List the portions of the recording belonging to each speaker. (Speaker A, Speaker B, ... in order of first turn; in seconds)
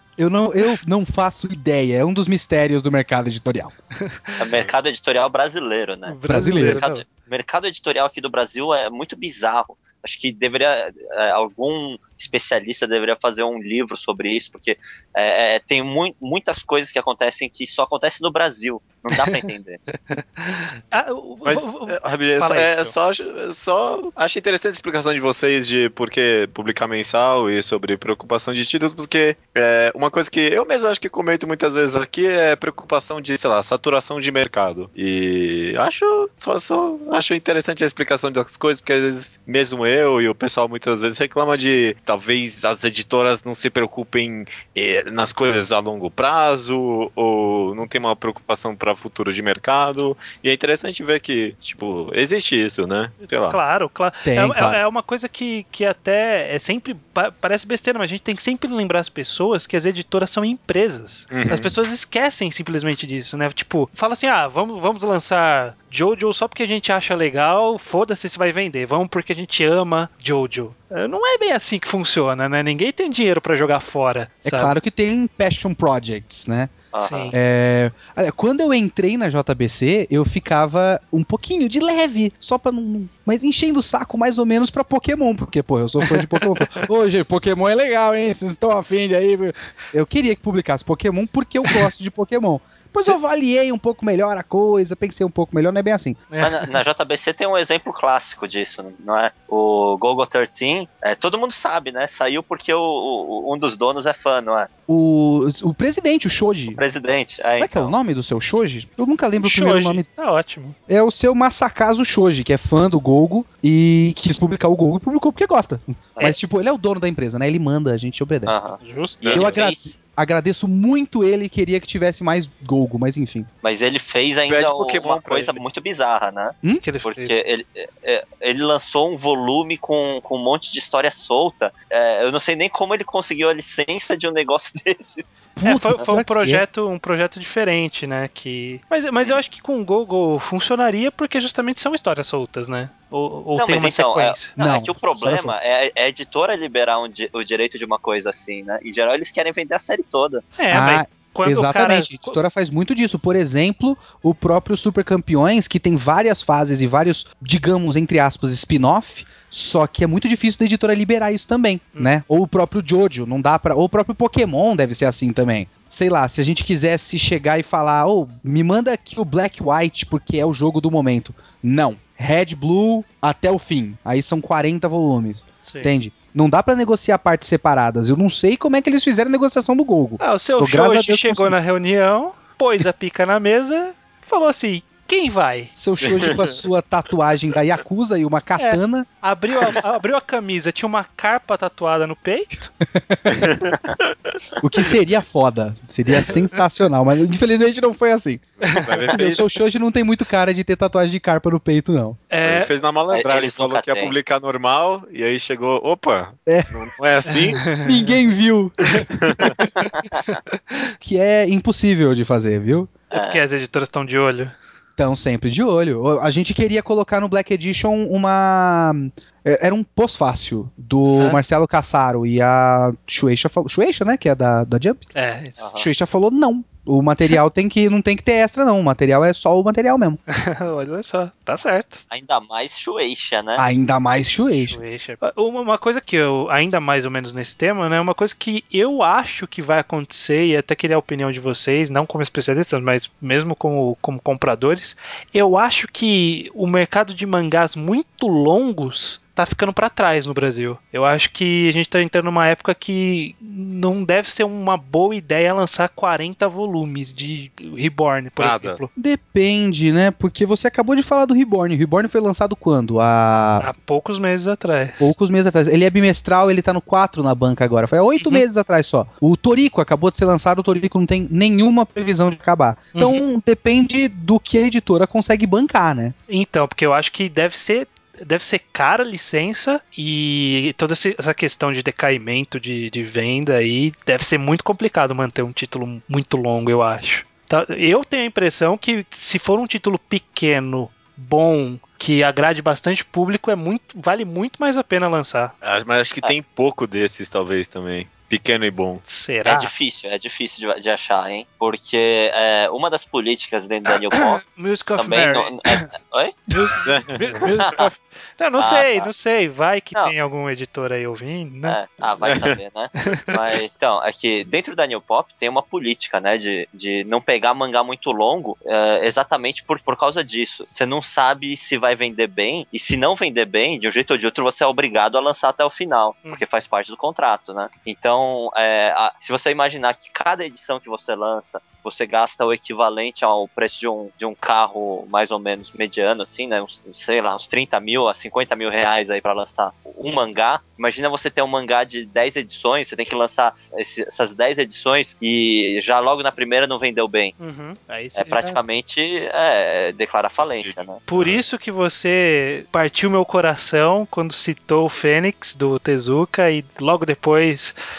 Speaker A: 0.2-3.7, 6.3-6.8, 54.2-54.8, 74.4-76.7, 77.3-96.2, 104.9-106.8, 107.6-110.0, 110.9-118.6, 119.3-123.5, 135.6-136.6, 144.6-145.5, 150.7-181.6, 185.7-189.1, 192.9-193.6, 194.6-198.5, 199.1-202.2, 206.4-206.7, 207.8-208.9, 211.0-212.9, 215.0-225.0, 225.8-230.2, 233.6-234.8, 258.9-263.6, 265.0-276.1
Speaker B: 4.0-4.4, 6.0-7.0, 20.1-22.9, 53.3-74.8, 77.0-77.3, 86.0-86.8, 96.3-96.7, 109.4-110.8, 118.8-119.2, 126.8-127.4, 135.6-144.5, 150.6-152.4, 175.6-175.9, 180.2-185.7, 188.6-192.7, 198.7-199.1, 202.3-202.7, 207.3-207.9, 209.8-210.9, 213.1-214.5, 221.1-221.4, 225.1-225.7, 230.3-232.0, 234.5-258.9, 263.6-265.1, 268.2-268.4, 272.9-273.2, 276.3-295.5, 299.1-299.7, 304.1-305.9, 306.5-311.8, 347.4-348.6, 351.1-357.7
Speaker C: 4.4-19.8, 76.9-77.3, 96.4-104.7, 106.7-107.9, 118.5-119.9, 123.6-135.3, 143.6-150.4, 203.1-204.2, 213.1-213.4, 225.6-225.9, 232.1-233.7, 299.4-304.4, 305.0-306.4, 307.5-307.9, 308.6-309.1, 311.6-347.3, 348.1-351.0
Speaker D: 21.4-53.6, 61.3-61.7, 119.2-119.7, 124.5-125.6, 186.0-186.6, 193.3-194.3, 196.1-196.5, 198.6-199.4, 202.4-207.7, 208.9-209.7, 258.4-258.8, 295.6-299.0, 306.8-307.4, 312.2-312.6, 350.4-351.4